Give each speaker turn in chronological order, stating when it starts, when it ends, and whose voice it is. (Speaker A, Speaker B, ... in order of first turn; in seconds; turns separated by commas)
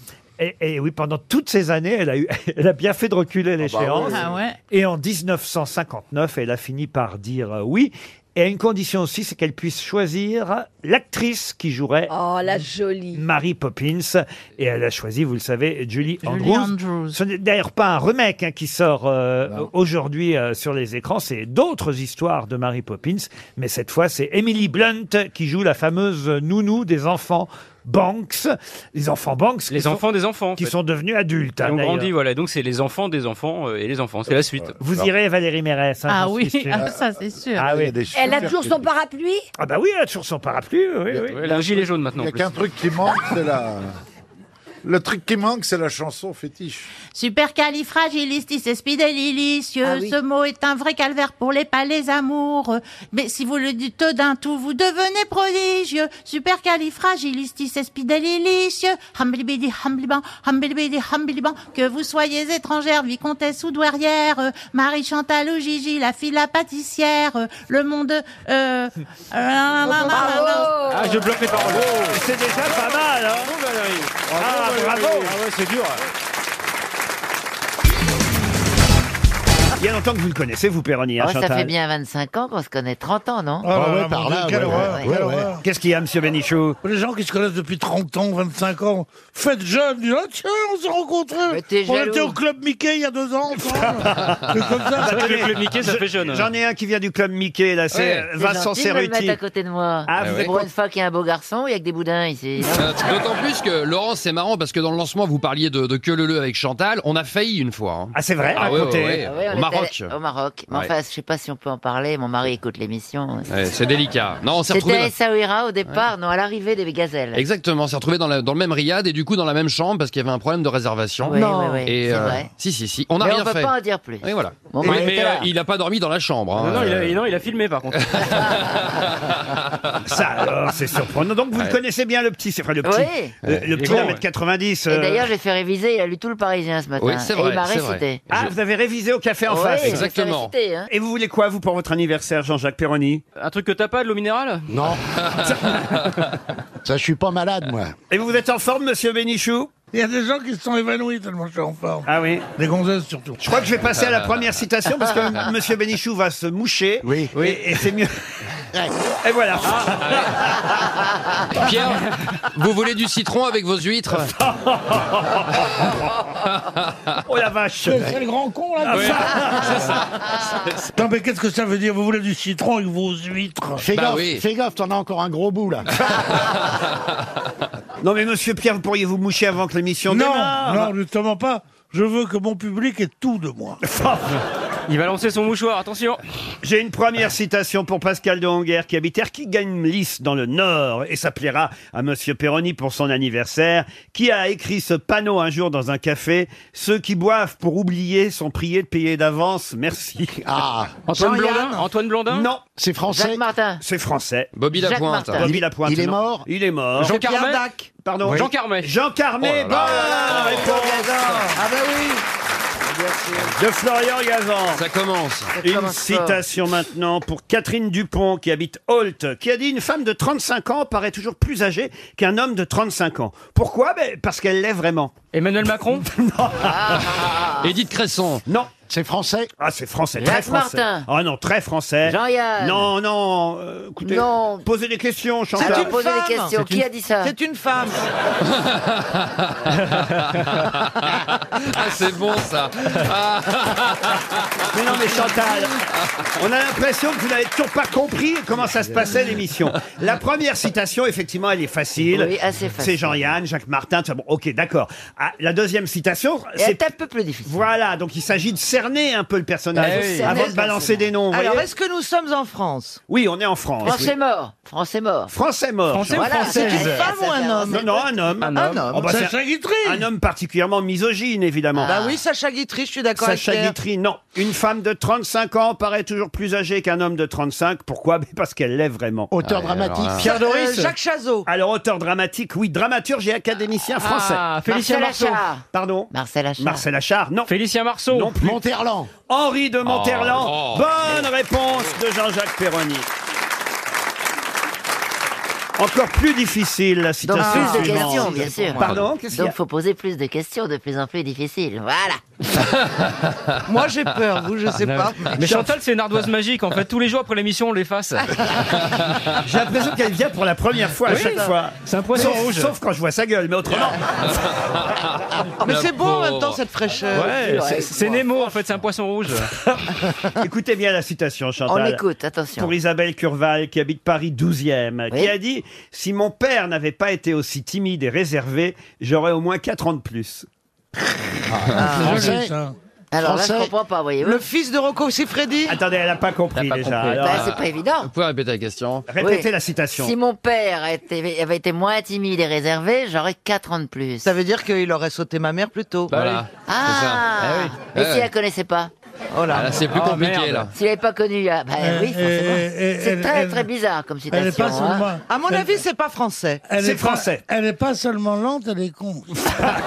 Speaker A: 0.4-12.1, Speaker B: 3.6-4.3, Speaker C: 4.1-4.6, Speaker D: 12.1-13.2, Speaker A: 13.1-30.0, Speaker C: 16.2-17.2, Speaker E: 29.7-30.8, Speaker A: 30.6-32.1, Speaker E: 31.6-34.8, Speaker B: 34.5-35.1, Speaker A: 34.8-36.9, Speaker C: 36.1-37.6, Speaker B: 36.7-37.0, Speaker A: 37.6-37.9, Speaker B: 37.6-38.9, Speaker D: 38.1-39.4, Speaker A: 39.6-41.8, Speaker E: 41.2-42.5, Speaker B: 42.1-43.9, Speaker B: 44.8-46.9, Speaker C: 47.1-70.8, Speaker D: 70.1-70.7, Speaker E: 70.9-76.0, Speaker A: 72.1-73.5, Speaker A: 74.4-75.3, Speaker A: 79.8-81.7, Speaker F: 81.2-83.7, Speaker G: 83.6-85.6, Speaker H: 83.7-85.5, Speaker A: 85.6-86.8, Speaker G: 86.8-95.4, Speaker F: 91.5-92.4, Speaker A: 93.6-99.4, Speaker E: 95.1-96.5, Speaker F: 98.3-103.2, Speaker A: 100.1-100.7, Speaker I: 103.2-108.1, Speaker A: 108.1-109.2, Speaker I: 108.7-110.1, Speaker F: 109.2-113.5, Speaker I: 113.5-115.1, Speaker F: 114.7-117.4, Speaker I: 117.4-121.3, Speaker F: 121.3-122.5, Speaker I: 121.9-123.7, Speaker F: 123.2-125.5, Speaker I: 124.2-124.5, Speaker E: 124.8-125.5, Speaker I: 125.5-126.8, Speaker E: 126.6-128.9, Speaker A: 130.1-135.3, Speaker F: 132.8-133.3, Speaker E: 133.8-134.2, Speaker F: 134.9-138.3, Speaker I: 137.0-138.0, Speaker A: 138.3-140.0, Speaker F: 139.5-140.9, Speaker I: 139.9-140.5, Speaker A: 140.9-143.2, Speaker E: 143.4-144.7, Speaker H: 146.8-147.9, Speaker A: 148.1-149.7, Speaker G: 149.9-152.1, Speaker A: 152.1-152.5, Speaker G: 152.6-153.4, Speaker A: 153.4-158.1, Speaker A: 159.2-160.3, Speaker I: 161.7-161.9, Speaker I: 162.6-164.2, Speaker A: 164.7-165.4, Speaker A: 167.3-168.1, Speaker G: 167.8-170.1, Speaker A: 168.8-169.8, Speaker G: 170.9-173.9, Speaker H: 173.8-175.9, Speaker I: 174.0-174.4, Speaker A: 178.0-180.9, Speaker G: 180.1-183.8, Speaker A: 183.8-184.3, Speaker E: 184.9-186.2, Speaker A: 186.6-200.3, Speaker H: 200.4-201.0, Speaker E: 201.1-202.5, Speaker J: 201.2-201.7, Speaker A: 202.3-202.6, Speaker H: 202.8-203.4, Speaker F: 203.1-203.8, Speaker A: 203.8-204.5, Speaker I: 204.6-205.4, Speaker F: 204.8-205.5, Speaker A: 205.3-207.2, Speaker H: 205.8-206.4, Speaker E: 207.0-207.7, Speaker J: 207.2-207.7, Speaker A: 208.0-211.4, Speaker E: 208.2-208.9, Speaker I: 209.8-210.7, Speaker J: 209.9-212.2, Speaker I: 211.2-211.5, Speaker J: 212.9-213.5, Speaker A: 213.5-214.8, Speaker I: 214.8-215.5, Speaker A: 215.6-225.2, Speaker F: 215.6-216.4, Speaker E: 225.3-226.1, Speaker A: 226.1-227.0, Speaker F: 226.7-227.7, Speaker I: 227.6-228.4, Speaker H: 228.9-229.5, Speaker A: 229.6-236.0, Speaker F: 230.2-231.1, Speaker F: 232.1-232.9, Speaker F: 234.0-234.7, Speaker J: 235.6-238.0, Speaker F: 235.6-237.3, Speaker I: 241.7-243.7, Speaker A: 244.7-245.7, Speaker A: 246.4-256.9, Speaker F: 252.1-253.2, Speaker F: 256.6-257.7, Speaker A: 257.4-261.6, Speaker E: 259.8-260.6, Speaker F: 260.0-260.4, Speaker J: 260.3-263.0, Speaker A: 263.1-264.1, Speaker F: 263.8-265.3, Speaker A: 265.3-266.9, Speaker E: 265.9-267.1, Speaker F: 266.1-267.8, Speaker J: 266.4-268.0, Speaker A: 267.7-272.0, Speaker E: 268.4-268.9, Speaker G: 269.0-270.1, Speaker J: 271.9-273.8, Speaker A: 273.2-279.3, Speaker H: 279.3-280.3, Speaker I: 279.4-280.2, Speaker J: 280.1-281.5, Speaker E: 280.4-280.9, Speaker A: 281.5-284.4, Speaker E: 284.0-285.4, Speaker F: 284.6-286.8, Speaker A: 285.7-287.5, Speaker E: 287.5-288.4, Speaker A: 288.1-288.6, Speaker H: 288.4-289.1, Speaker A: 289.3-293.1, Speaker I: 289.9-291.2, Speaker A: 295.8-299.6, Speaker F: 297.3-302.2, Speaker J: 297.3-298.3, Speaker J: 303.7-305.4, Speaker E: 304.9-308.4, Speaker A: 305.4-305.7, Speaker A: 309.4-314.1, Speaker E: 311.1-312.7, Speaker J: 315.6-317.9, Speaker I: 315.7-316.6, Speaker E: 317.1-319.5, Speaker A: 320.4-322.0, Speaker F: 321.7-322.7, Speaker A: 322.6-330.5, Speaker H: 331.6-332.5, Speaker J: 331.8-332.3, Speaker G: 331.9-332.8, Speaker F: 333.1-334.4, Speaker H: 333.2-333.8, Speaker J: 334.2-335.8, Speaker A: 335.7-337.6, Speaker I: 336.6-339.1, Speaker F: 337.2-338.1, Speaker A: 339.1-340.1, Speaker F: 339.2-339.5, Speaker F: 340.0-344.3, Speaker J: 344.2-346.2, Speaker I: 346.1-348.3, Speaker F: 346.6-348.9, Speaker J: 349.3-349.8, Speaker I: 349.5-350.7, Speaker E: 350.0-350.5, Speaker F: 350.7-355.1, Speaker G: 351.8-353.7, Speaker G: 354.3-355.8, Speaker J: 355.3-356.6, Speaker G: 356.7-359.4, Speaker A: 356.8-357.4